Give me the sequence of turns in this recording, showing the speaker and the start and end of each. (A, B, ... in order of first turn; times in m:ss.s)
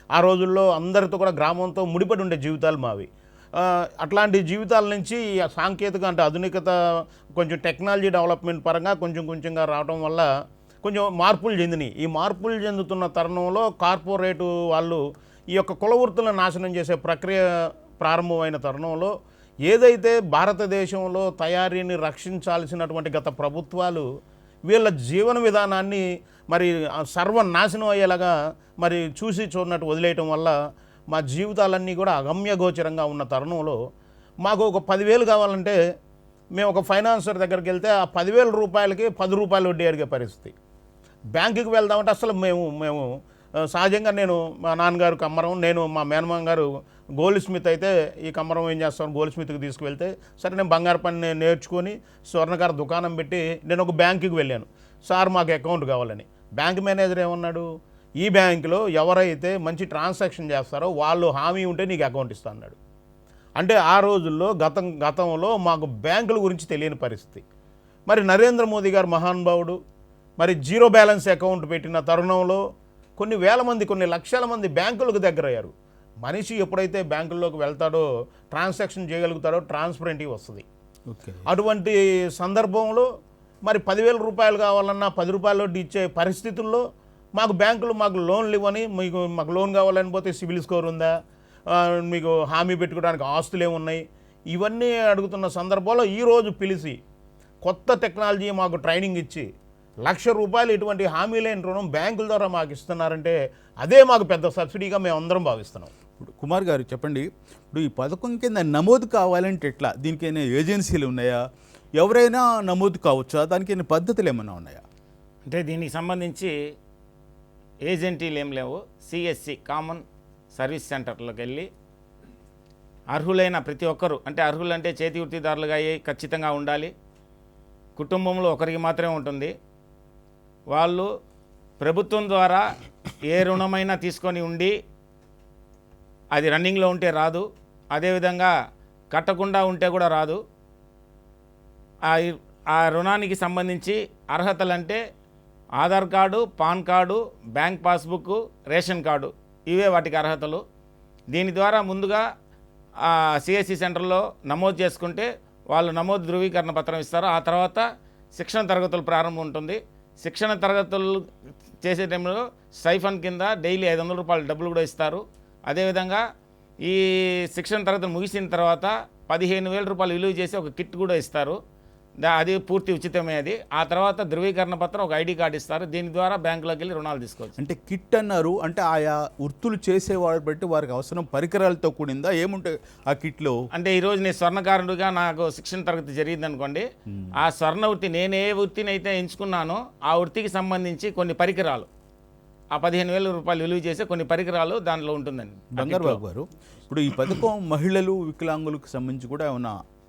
0:00.1-0:10.3 A
0:10.8-0:15.0 A
0:15.5-0:19.1 A
0:19.7-0:24.1 A
0:24.7-0:30.6 A
0:31.1-0:33.8 A
0:34.4-0:35.8 A
0:36.6-0:40.5 A
0:41.4-0:43.1 A
0:43.7-0:46.7 A
0:47.2-0:57.7 A
0:58.2-1:02.8 A
1:03.6-1:07.4 A
1:08.1-1:09.8 A
1:10.4-1:12.6 A
1:13.2-1:20.6 A
1:21.1-1:21.4 B
1:21.5-1:23.1 A
1:23.6-1:26.8 A
1:27.4-1:31.1 A
1:31.7-1:37.0 A
1:37.6-1:39.5 A
1:40.0-1:45.9 A
1:46.2-1:51.4 B
1:52.0-1:54.8 B
1:55.5-1:56.6 C
1:57.9-2:00.0 C
2:00.6-2:01.7 C
2:03.1-2:06.9 C
2:08.0-2:09.5 C
2:10.7-2:11.1 C
2:11.8-2:12.7 C
2:13.3-2:14.7 C
2:16.4-2:18.5 C
2:19.1-2:20.4 C
2:22.1-2:25.0 C
2:25.8-2:30.6 C
2:31.3-2:32.2 C
2:33.0-2:37.8 C
2:38.4-2:41.2 C
2:41.8-2:46.2 C
2:46.8-2:51.6 C
2:52.2-2:57.6 C
2:57.6-3:03.6 B
3:03.7-3:06.9 C
3:07.1-3:07.3 B
3:07.4-3:11.9 C
3:12.7-3:16.2 C
3:15.8-3:19.8 B